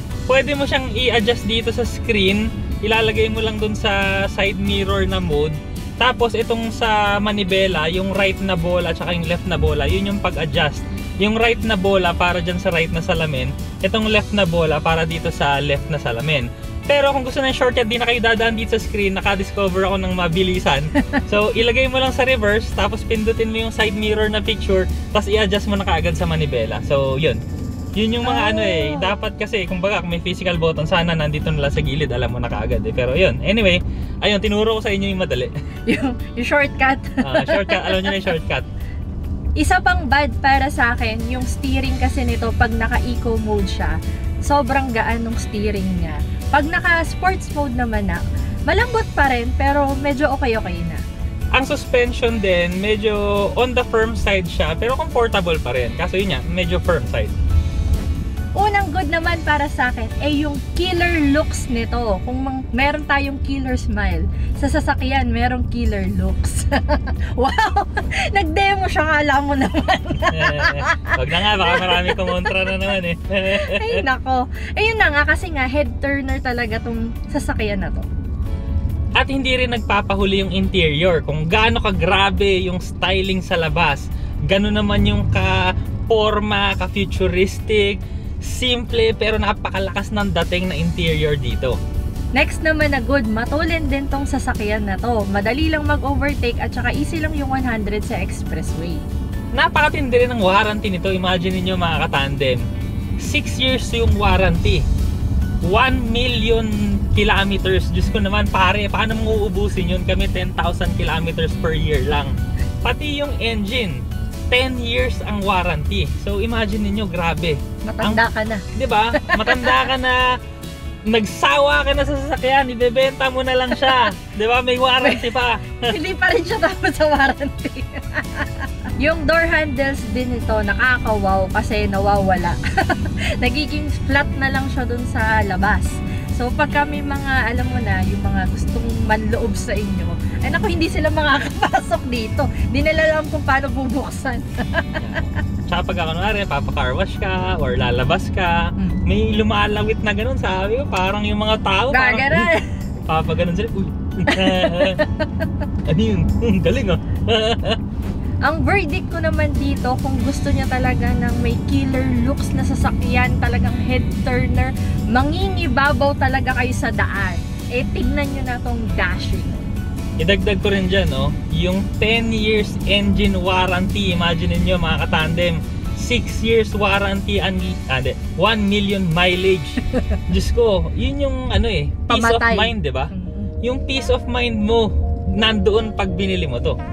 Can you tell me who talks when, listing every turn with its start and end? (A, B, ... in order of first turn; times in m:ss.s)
0:00.3-0:27.4 A
0:28.0-0:35.5 A
0:28.2-0:29.1 B
0:35.9-0:38.1 B
0:37.2-0:38.7 A
0:39.6-0:43.9 B
0:44.4-0:51.0 B
0:51.5-0:57.3 A
0:58.6-1:12.8 B
1:10.3-1:14.0 A
1:13.5-1:18.1 B
1:19.2-1:25.6 A
1:26.1-1:31.8 A
1:32.3-1:39.0 B
1:39.6-1:42.6 A
1:43.2-1:44.8 A
1:45.6-2:00.2 A
1:57.8-1:58.6 B
1:59.2-1:59.8 B
2:01.1-2:05.9 A
2:05.0-2:05.3 B
2:05.9-2:25.0 B
2:25.0-2:32.5 A
2:31.9-2:32.8 B
2:33.0-2:35.0 A
2:34.3-2:35.5 B
2:35.9-2:37.8 A
2:38.4-2:49.7 B
2:50.2-3:03.1 A
3:02.1-3:03.5 B
3:03.6-3:06.8 A